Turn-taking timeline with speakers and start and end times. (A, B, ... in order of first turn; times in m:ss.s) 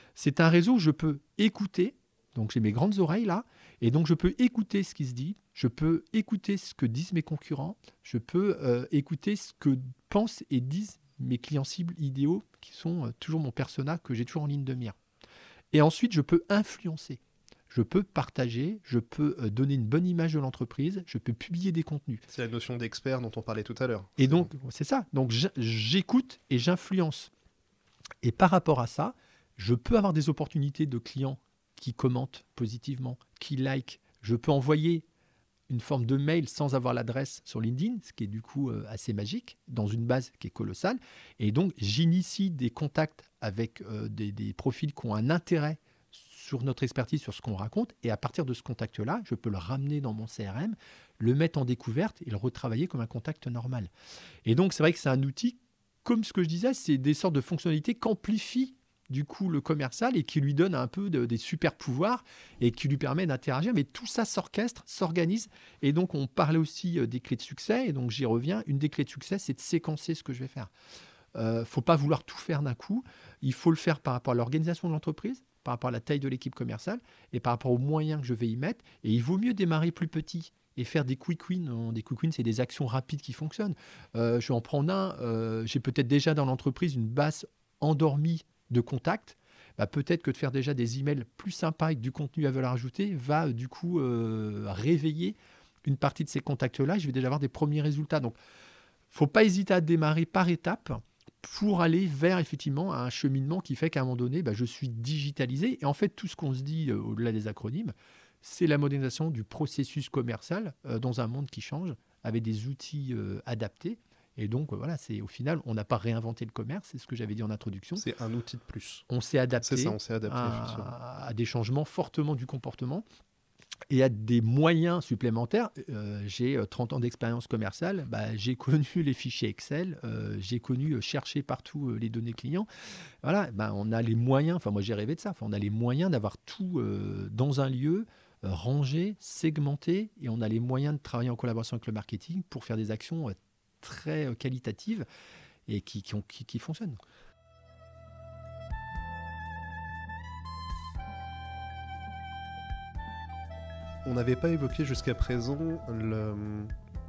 0:00.2-0:15.0 A
0:15.7-0:22.2 A
0:22.3-0:24.5 B
0:24.2-0:27.3 A
0:28.2-0:35.0 A
0:35.7-0:53.9 A
0:54.5-1:10.7 A
1:11.4-1:38.4 A
1:39.1-1:58.0 A
1:58.0-1:59.0 B
1:59.1-2:03.0 A
1:59.6-2:00.9 B
2:03.9-2:12.7 A
2:13.2-2:25.1 A
2:25.7-2:27.0 A
2:34.0-2:36.7 B